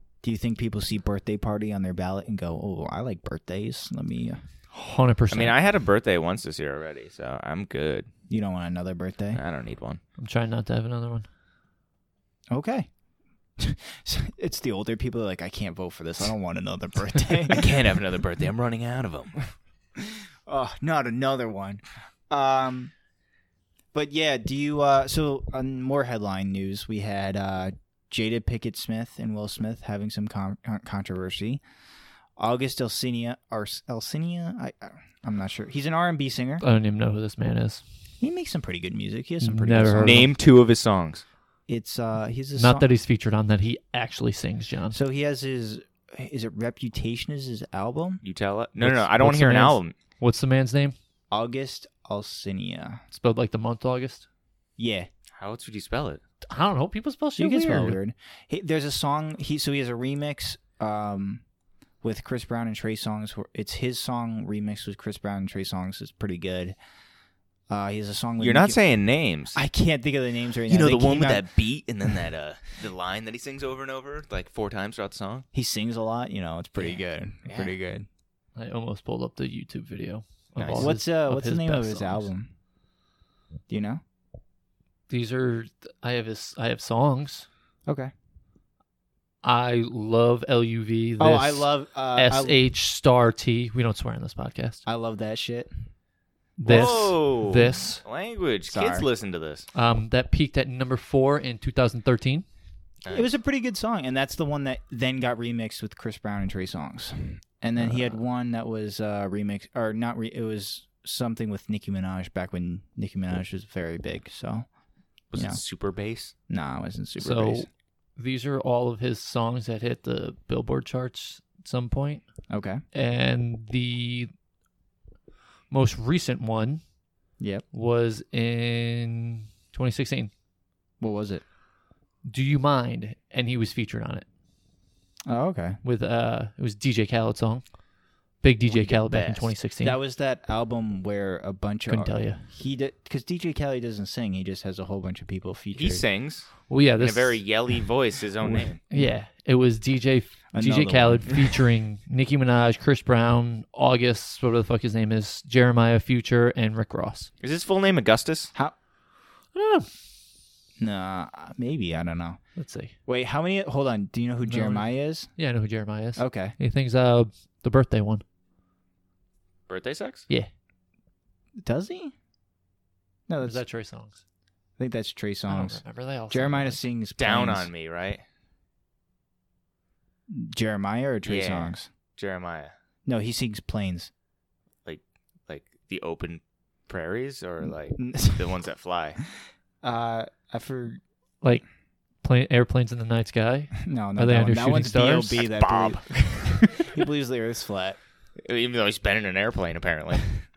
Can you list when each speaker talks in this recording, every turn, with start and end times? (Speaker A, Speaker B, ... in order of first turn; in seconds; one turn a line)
Speaker A: 0.2-4.4
Speaker B: 4.7-5.5
Speaker C: 5.3-8.1
Speaker A: 8.3-9.4
Speaker C: 9.3-10.0
Speaker B: 10.2-11.2
Speaker A: 12.5-12.9
Speaker A: 13.6-17.7
Speaker C: 17.5-19.5
Speaker A: 20.0-22.9
Speaker A: 23.9-31.6
Speaker A: 32.4-36.6
Speaker B: 36.6-37.8
Speaker A: 38.2-40.3
Speaker B: 39.4-40.2
Speaker C: 40.0-41.2
Speaker A: 41.7-42.9
Speaker B: 42.6-45.0
Speaker A: 44.9-48.2
Speaker C: 48.2-50.0
Speaker B: 48.8-50.9
Speaker A: 51.3-53.0
Speaker B: 53.1-54.3
Speaker A: 54.8-55.1
Speaker C: 55.4-56.2
Speaker B: 56.4-58.0
Speaker A: 57.4-61.4
Speaker A: 62.0-66.8
Speaker A: 67.7-68.8
Speaker C: 68.4-69.6
Speaker A: 69.5-71.5
Speaker C: 70.7-75.5
Speaker A: 75.5-78.1
Speaker C: 76.8-77.7
Speaker B: 78.5-82.3
Speaker C: 80.6-80.9
Speaker A: 80.8-82.5
Speaker A: 83.7-84.0
Speaker B: 85.1-87.5
Speaker B: 89.4-94.8
Speaker A: 91.2-92.5
Speaker A: 94.8-95.7
Speaker B: 96.6-98.0
Speaker C: 96.7-99.7
Speaker A: 98.7-99.0
Speaker B: 99.7-102.4
Speaker C: 103.0-103.3
Speaker A: 103.1-114.7
Speaker B: 107.8-108.1
Speaker C: 115.3-116.3
Speaker A: 116.5-117.7
Speaker B: 117.2-122.2
Speaker A: 122.5-122.8
Speaker B: 122.9-124.3
Speaker B: 125.7-126.8
Speaker A: 127.4-127.6
Speaker B: 127.7-130.3
Speaker A: 131.0-131.4
Speaker B: 132.2-134.2
Speaker A: 135.3-135.8
Speaker B: 135.8-137.7
Speaker B: 138.4-140.0
Speaker C: 138.7-139.5
Speaker A: 139.8-146.0
Speaker B: 141.9-142.4
Speaker C: 145.7-148.8
Speaker B: 146.7-147.4
Speaker A: 148.4-149.1
Speaker B: 148.9-157.3
Speaker A: 150.5-151.5
Speaker C: 157.4-158.5
Speaker B: 159.5-159.9
Speaker A: 160.8-162.4
Speaker B: 162.6-162.9
Speaker A: 163.1-165.3
Speaker B: 164.4-168.2
Speaker A: 166.2-166.5
Speaker C: 169.7-170.2
Speaker A: 171.6-172.1
Speaker A: 173.3-173.6
Speaker B: 173.4-174.2
Speaker A: 174.8-177.7
Speaker B: 175.5-176.8
Speaker C: 177.2-178.2
Speaker A: 180.3-181.9
Speaker C: 181.2-182.7
Speaker A: 183.1-184.1
Speaker C: 184.8-189.2
Speaker A: 187.9-188.5
Speaker A: 189.8-191.0
Speaker B: 192.2-195.4
Speaker A: 193.8-198.0
Speaker C: 195.4-196.9
Speaker C: 198.4-200.2